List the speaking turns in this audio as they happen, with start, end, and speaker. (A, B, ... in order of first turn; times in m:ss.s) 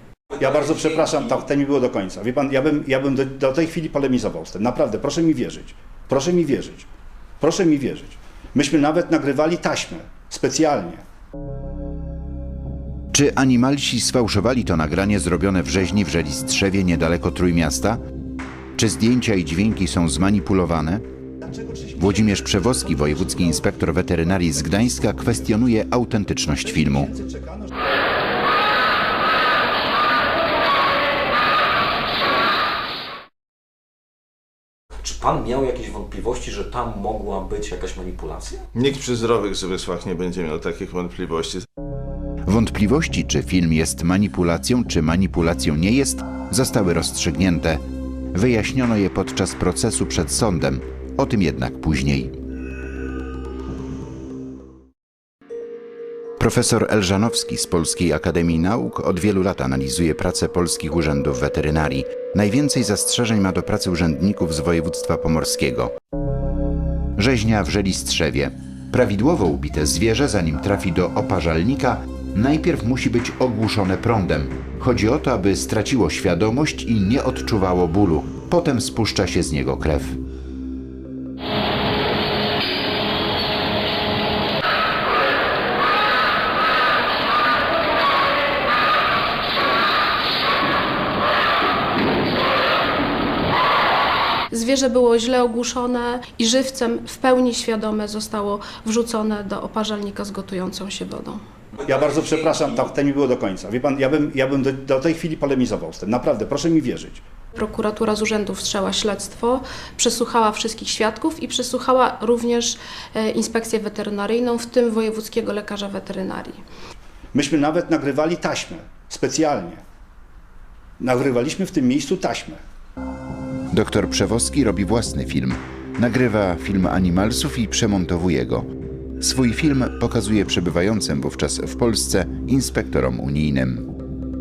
0:00.4-0:06.9 A
0:07.4-0:11.0 A
0:13.1-0:18.0 B
0:18.8-0:21.0 B
0:21.6-0:23.0 A
0:22.0-0:27.1 B
0:26.6-0:27.7 A
0:35.0-0:38.6 C
0:38.7-0:41.6 D
0:42.5-0:47.8 B
0:48.3-0:52.3 B
0:56.4-1:05.9 B
1:07.2-1:20.2 B
1:34.5-1:41.4 E
1:41.8-1:47.2 A
1:47.6-1:56.6 E
1:57.3-1:59.8 A
2:01.0-2:02.6 A
2:03.7-2:08.7 B
2:09.2-2:13.9 B